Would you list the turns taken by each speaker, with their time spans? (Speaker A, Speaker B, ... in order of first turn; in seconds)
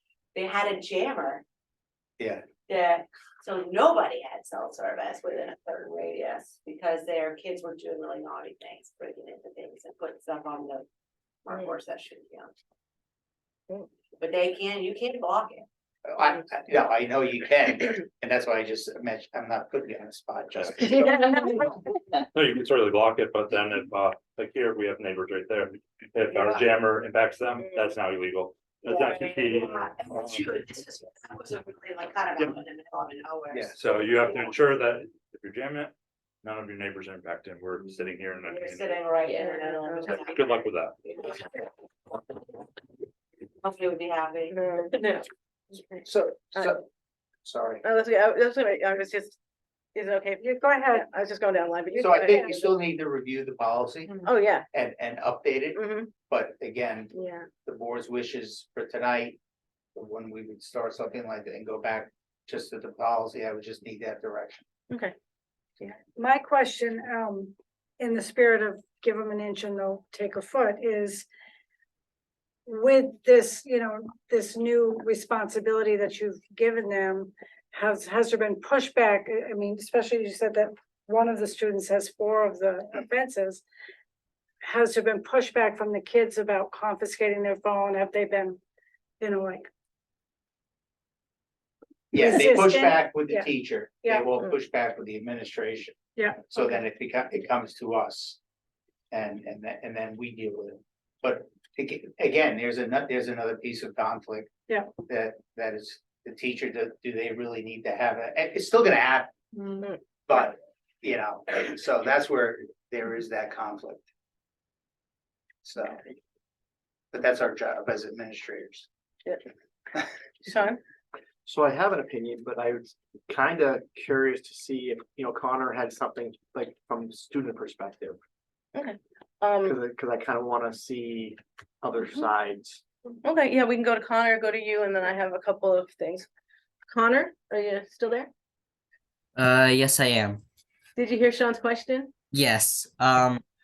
Speaker A: 0.3-1.4, 2.7-10.9, 11.4-12.5, 14.2-15.7, 28.9-34.4, 38.5-41.3, 43.6-45.3
Speaker B: 2.2-2.4, 16.1-21.4, 33.5-33.8, 46.0-46.8, 47.4-47.8, 52.0-59.4, 60.0-64.7, 92.1-96.0, 96.5-98.4, 99.1-109.4, 110.3-114.0, 115.6-116.0, 117.1-118.9
Speaker C: 21.1-21.5, 50.4-51.1, 52.0-52.5, 66.1-71.3, 72.7-83.6, 84.6-88.6, 89.2-89.7, 92.2-93.5, 96.2-96.8
Speaker D: 22.3-30.6, 33.8-39.0, 40.1-41.0
Speaker E: 39.3-40.2, 44.5-44.9, 47.8-49.4, 50.0-52.7, 54.2-54.7, 55.8-56.1, 57.1-57.5, 120.5-120.8, 128.8-129.8, 133.2-136.3, 136.9-138.3, 141.0-142.1
Speaker F: 121.5-128.2, 129.7-132.8
Speaker G: 139.4-140.4, 142.3-143.4